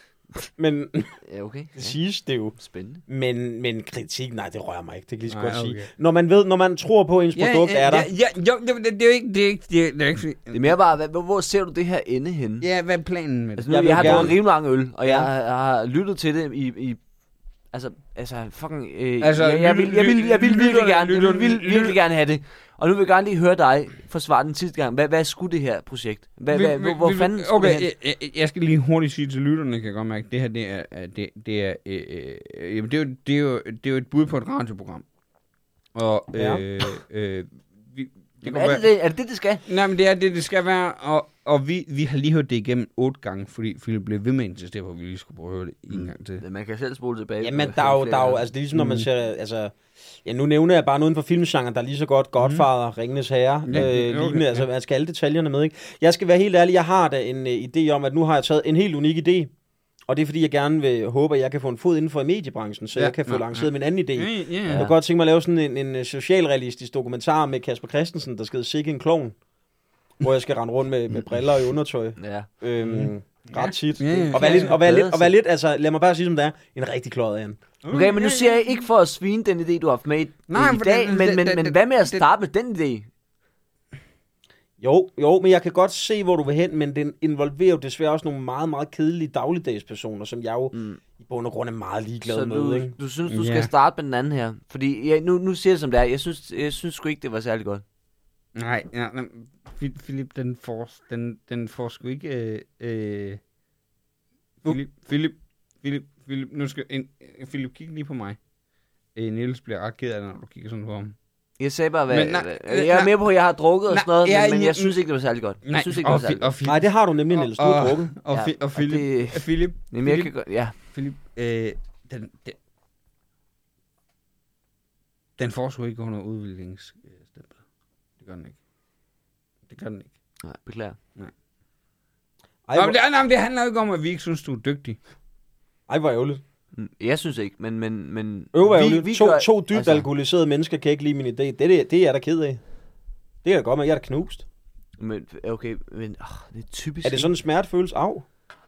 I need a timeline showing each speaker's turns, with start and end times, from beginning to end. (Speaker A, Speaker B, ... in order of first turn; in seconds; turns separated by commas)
Speaker A: 0.4-1.2, Speaker B: 1.2-2.0, Speaker A: 1.8-8.1, Speaker B: 2.5-3.0, Speaker C: 5.3-5.9, Speaker C: 7.3-10.7, Speaker B: 10.5-12.7, Speaker C: 12.6-14.3, Speaker B: 13.6-17.0, Speaker A: 13.7-15.3, Speaker B: 17.7-27.9, Speaker C: 19.2-22.0, Speaker C: 26.5-35.1, Speaker C: 35.9-38.9, Speaker A: 36.4-36.6, Speaker B: 38.4-39.6, Speaker C: 39.7-46.4, Speaker B: 45.9-48.4, Speaker A: 47.4-59.5, Speaker C: 48.7-49.1, Speaker C: 52.4-52.7, Speaker C: 53.7-54.6, Speaker A: 60.1-69.4, Speaker C: 63.0-64.8, Speaker B: 64.7-64.9, Speaker A: 70.2-77.6, Speaker B: 72.2-72.5, Speaker C: 72.9-74.8, Speaker B: 74.3-75.3, Speaker C: 77.8-78.8, Speaker B: 77.9-83.1, Speaker C: 80.5-82.2, Speaker A: 84.8-93.0, Speaker B: 90.7-91.0, Speaker B: 92.2-97.8, Speaker C: 93.3-93.7, Speaker C: 98.5-103.4, Speaker C: 104.6-108.4, Speaker C: 109.2-111.2, Speaker B: 111.6-116.5, Speaker C: 112.1-113.2, Speaker C: 113.9-115.0, Speaker C: 115.6-122.6, Speaker A: 116.6-118.1, Speaker B: 118.3-120.8, Speaker C: 125.4-127.6, Speaker C: 128.2-128.6, Speaker C: 129.7-130.2, Speaker B: 130.4-131.0, Speaker A: 132.7-133.0, Speaker C: 132.8-135.0, Speaker A: 135.9-136.4, Speaker B: 136.7-140.1, Speaker A: 138.5-142.6, Speaker A: 143.4-144.4, Speaker B: 145.0-147.3, Speaker A: 147.0-148.3